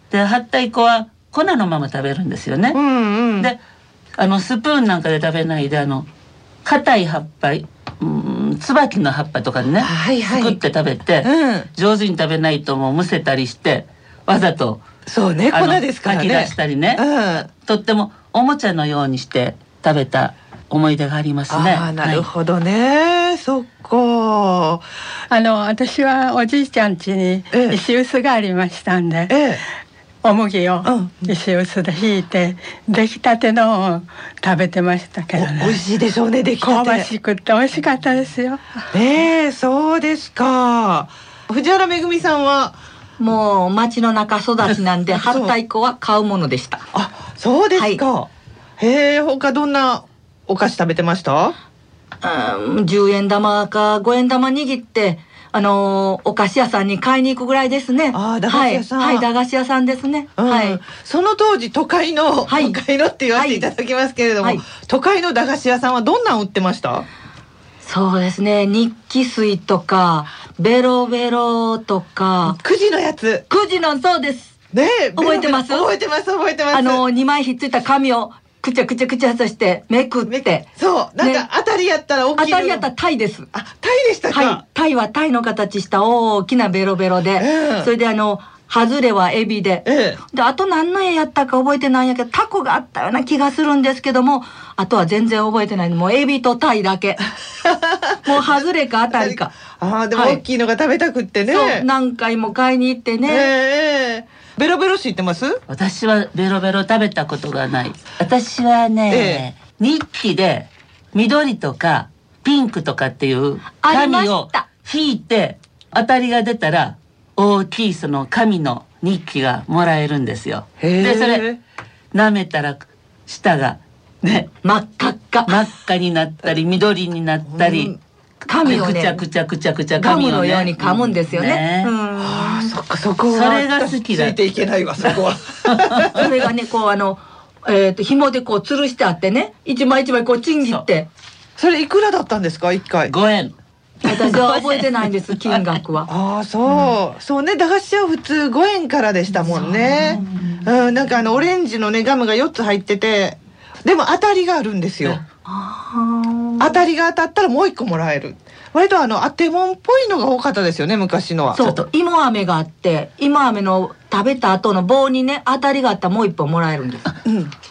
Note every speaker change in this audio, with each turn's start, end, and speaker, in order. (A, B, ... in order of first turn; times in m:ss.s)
0:00.1-0:02.8 A
0:02.7-0:03.5 B
0:04.2-0:06.1 A
0:06.6-0:14.8 A
0:09.8-0:10.6 B
0:11.2-0:11.7 B
0:15.1-0:17.5 B
0:15.5-0:17.0 A
0:17.6-0:22.3 A
0:21.5-0:24.8 B
0:25.3-0:29.4 C
0:27.5-0:27.8 B
0:29.3-0:29.6 B
0:30.2-0:35.8 C
0:30.8-0:31.3 B
0:35.3-0:37.1 B
0:36.6-0:38.7 C
0:38.9-0:42.8 B
0:43.2-0:46.8 D
0:45.1-0:45.5 B
0:46.9-0:51.6 B
0:47.7-0:48.0 D
0:52.2-1:00.8 D
0:58.1-0:59.3 B
1:00.4-1:07.1 B
1:02.5-1:02.8 D
1:03.3-1:03.7 D
1:07.8-1:12.6 D
1:12.5-1:13.4 B
1:13.5-1:14.5 D
1:14.7-1:17.0 B
1:15.2-1:15.9 D
1:16.7-1:20.7 D
1:20.8-1:22.9 B
1:21.2-1:21.4 D
1:22.4-1:23.5 D
1:23.5-1:24.6 B
1:24.3-1:37.3 D
1:27.4-1:27.9 B
1:29.8-1:30.2 B
1:37.6-1:38.5 B
1:38.2-1:39.6 D
1:39.1-1:41.8 B
1:40.1-1:40.4 D
1:41.5-1:43.5 D
1:43.2-1:45.6 B
1:45.7-2:01.5 A
1:49.1-1:49.4 B
1:53.7-1:54.7 D
2:00.8-2:01.6 B
2:02.1-2:04.5 A
2:04.6-2:05.6 D
2:05.5-2:07.9 A
2:07.5-2:08.0 B
2:08.5-2:09.2 D
2:08.5-2:11.9 A
2:10.0-2:12.7 D
2:12.2-2:16.2 B
2:13.3-2:14.4 A
2:15.8-2:16.1 A
2:16.2-2:21.1 D
2:21.6-2:23.1 B
2:23.1-2:23.5 A
2:24.0-2:26.1 D
2:24.2-2:24.7 A
2:26.1-2:35.2 B
2:29.4-2:30.5 D
2:35.1-2:36.8 D
2:36.6-2:41.6 B
2:41.5-2:47.1 D
2:47.2-2:47.5 B